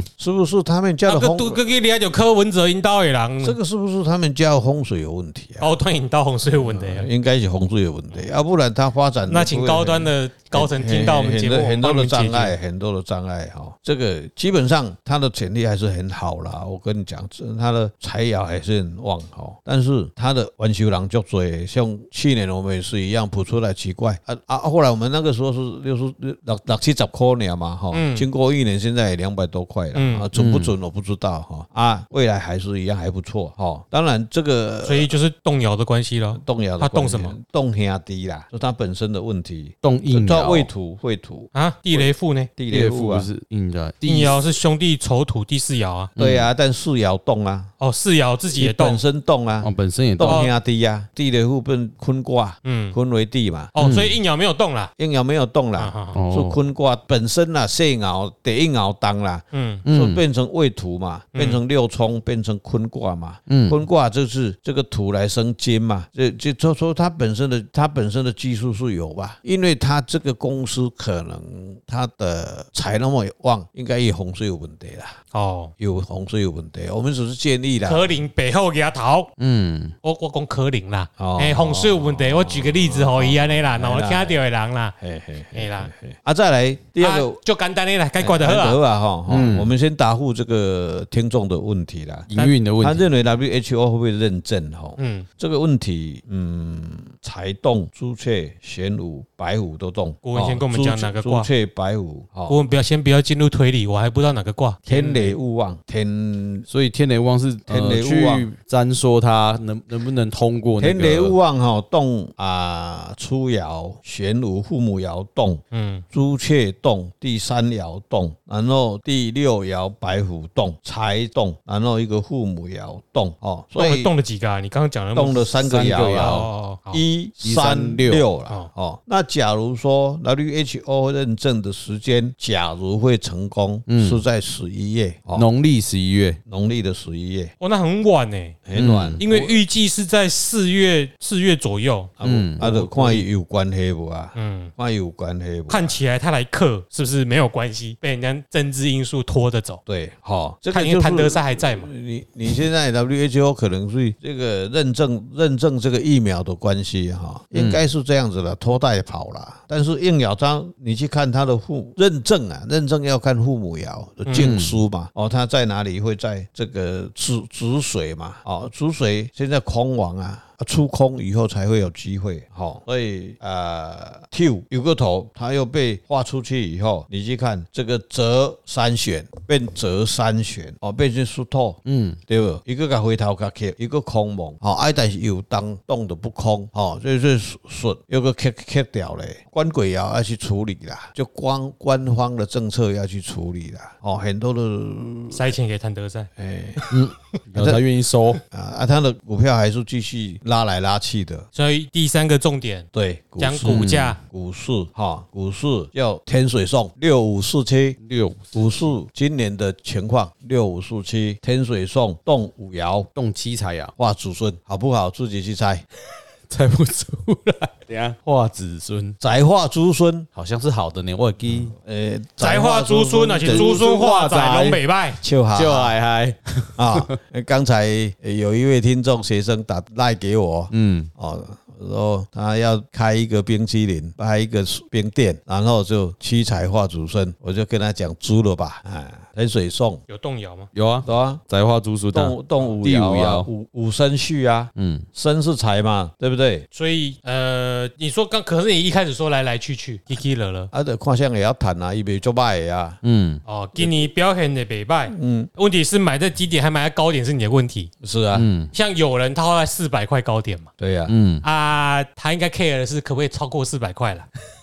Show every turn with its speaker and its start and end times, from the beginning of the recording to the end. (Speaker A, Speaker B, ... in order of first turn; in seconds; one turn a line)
Speaker A: 0.2-1.6
Speaker B: 1.1-3.5
Speaker A: 3.4-5.7
Speaker B: 5.6-7.1
Speaker A: 6.5-35.1
Speaker B: 9.3-12.6
Speaker B: 27.9-28.2
Speaker B: 29.9-30.3
Speaker C: 30.3-30.7
Speaker B: 34.8-37.4
Speaker A: 36.3-43.3
Speaker C: 39.8-40.7
Speaker B: 41.5-42.5
Speaker C: 42.7-44.4
Speaker B: 44.0-46.1
Speaker C: 46.2-46.5
Speaker A: 46.2-47.7
Speaker B: 47.8-49.0
Speaker A: 48.6-53.7
Speaker C: 49.6-50.4
Speaker B: 50.2-50.5
Speaker B: 52.6-53.0
Speaker B: 53.7-54.9
Speaker C: 53.8-54.2
Speaker A: 55.0-75.2
Speaker B: 55.8-56.2
Speaker C: 56.1-56.6
Speaker B: 59.5-59.8
Speaker C: 59.8-60.2
Speaker B: 61.3-61.6
Speaker C: 63.5-63.8
Speaker B: 75.3-75.7
Speaker A: 75.8-78.2
Speaker B: 77.8-79.3
Speaker C: 79.4-79.9
Speaker B: 80.0-84.9
Speaker A: 81.2-84.4
Speaker A: 85.0-87.4
Speaker B: 85.5-85.9
Speaker B: 87.0-88.8
Speaker A: 88.2-102.6
Speaker C: 89.3-89.7
Speaker C: 92.3-93.0
Speaker B: 95.0-95.3
Speaker B: 100.2-101.5
Speaker B: 102.5-105.3
Speaker A: 104.9-106.7
Speaker C: 106.7-111.4
Speaker A: 107.7-108.5
Speaker A: 110.8-124.1
Speaker B: 115.7-116.0
Speaker B: 123.7-127.0
Speaker A: 125.1-135.5
Speaker C: 125.6-126.5
Speaker C: 127.4-128.2
Speaker C: 133.9-134.2
Speaker C: 135.3-136.4
Speaker A: 136.5-137.5
Speaker B: 137.6-138.6
Speaker A: 138.7-139.6
Speaker C: 138.7-139.2
Speaker B: 139.2-143.2
Speaker A: 142.2-146.0
Speaker C: 142.2-142.7
Speaker B: 144.3-144.7
Speaker B: 145.7-149.8
Speaker A: 149.9-195.5
Speaker B: 150.7-151.9
Speaker C: 157.5-157.8
Speaker C: 164.3-164.8
Speaker C: 181.8-182.2
Speaker B: 195.3-197.0
Speaker A: 196.4-196.8
Speaker C: 196.9-198.4
Speaker A: 197.5-197.8
Speaker A: 198.5-201.5
Speaker B: 201.5-202.9
Speaker A: 202.9-208.0
Speaker B: 203.4-204.2
Speaker C: 203.6-204.1
Speaker C: 208.0-208.6
Speaker A: 208.5-213.1
Speaker C: 213.1-213.9
Speaker A: 214.0-215.8
Speaker C: 216.5-219.2
Speaker A: 219.2-220.3
Speaker C: 220.3-221.7
Speaker A: 221.7-223.8
Speaker B: 222.4-225.2
Speaker C: 223.4-224.8
Speaker A: 225.2-226.0
Speaker C: 225.5-227.2
Speaker A: 226.8-240.0
Speaker C: 230.7-231.1
Speaker B: 240.1-240.7
Speaker C: 240.7-243.5
Speaker A: 241.1-241.4
Speaker A: 242.1-246.7
Speaker C: 244.8-245.1
Speaker B: 246.7-250.7
Speaker A: 250.7-253.0
Speaker C: 253.0-253.4
Speaker B: 253.4-257.9
Speaker A: 253.8-254.0
Speaker A: 255.1-255.5
Speaker A: 258.0-258.5
Speaker C: 258.3-258.7
Speaker B: 258.7-260.7
Speaker A: 260.8-261.1
Speaker C: 261.1-261.4
Speaker B: 261.4-264.3